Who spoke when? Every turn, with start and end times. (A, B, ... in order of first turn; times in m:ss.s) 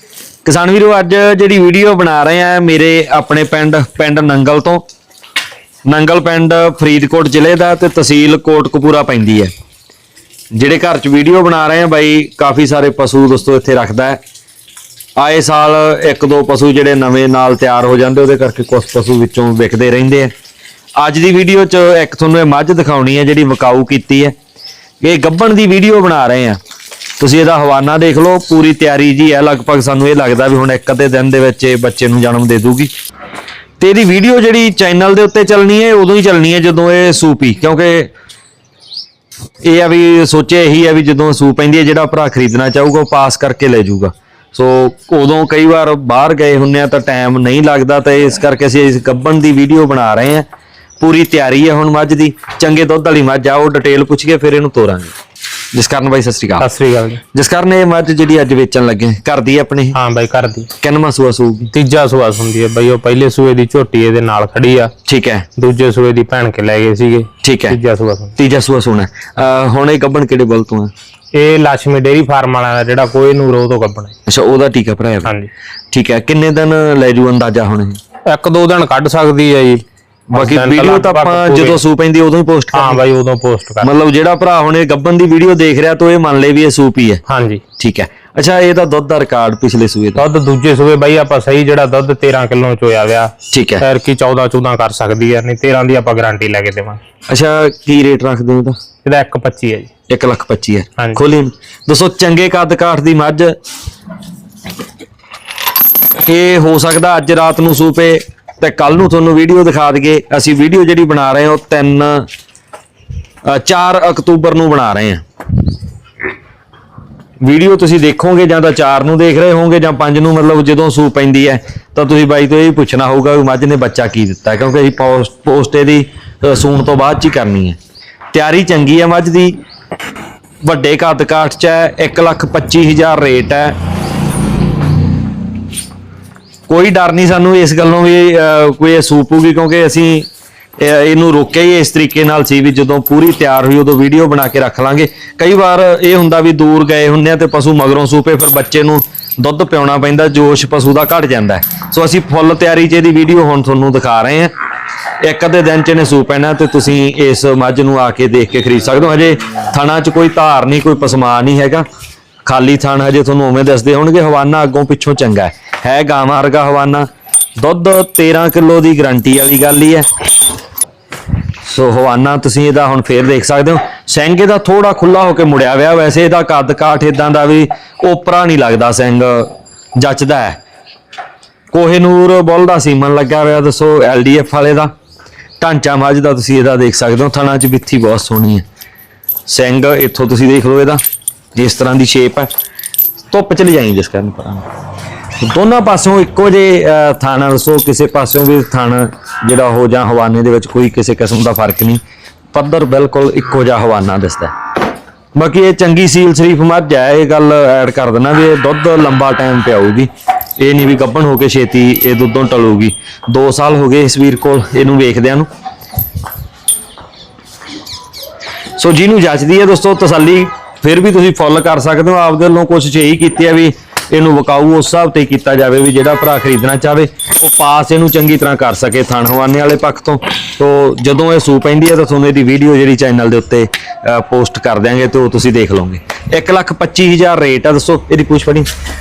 0:00.4-0:04.8 A
0:05.8-0:09.5 A
0:10.5-0:14.2 A
0:15.2-0:20.3 A
0:21.0-0:24.3 A
0:25.0-0:26.6 A
0:27.2-0:32.9 A
0:33.8-0:38.1 A
0:39.6-0:50.5 A
0:51.0-0:55.1 A
0:55.7-0:56.7 A
0:56.6-0:57.2 B
0:57.3-1:00.0 A
0:59.9-1:00.7 B
1:00.8-1:01.7 A
1:01.7-1:04.9 B
1:05.0-1:05.5 A
1:05.6-1:08.4 B
1:07.4-1:07.8 A
1:08.4-1:10.9 A
1:11.3-1:14.1 B
1:14.2-1:15.3 A
1:15.2-1:15.5 B
1:15.9-1:18.0 A
1:18.2-1:21.8 B
1:20.3-1:23.0 A
1:22.7-1:23.9 B
1:23.8-1:27.2 A
1:27.2-1:27.6 B
1:27.8-1:30.2 A
1:30.1-1:37.0 B
1:33.5-1:33.8 A
1:37.3-1:38.8 A
1:39.0-1:39.9 B
1:40.1-1:43.6 A
1:46.2-1:52.3 A
1:53.4-1:55.2 A
1:57.4-2:07.8 A
2:08.3-2:09.6 A
2:10.6-2:13.8 A
2:16.7-2:20.3 A
2:20.8-2:34.5 A
2:35.2-2:41.8 A
2:42.4-2:50.1 A
2:51.6-3:00.6 A
3:01.7-3:04.9 A
3:05.6-3:08.6 A
3:09.5-3:11.0 A
3:11.5-3:12.5 A
3:13.3-3:14.7 A
3:15.4-3:22.0 A
3:22.5-3:24.5 A
3:25.3-3:35.5 A
3:38.8-3:58.7 A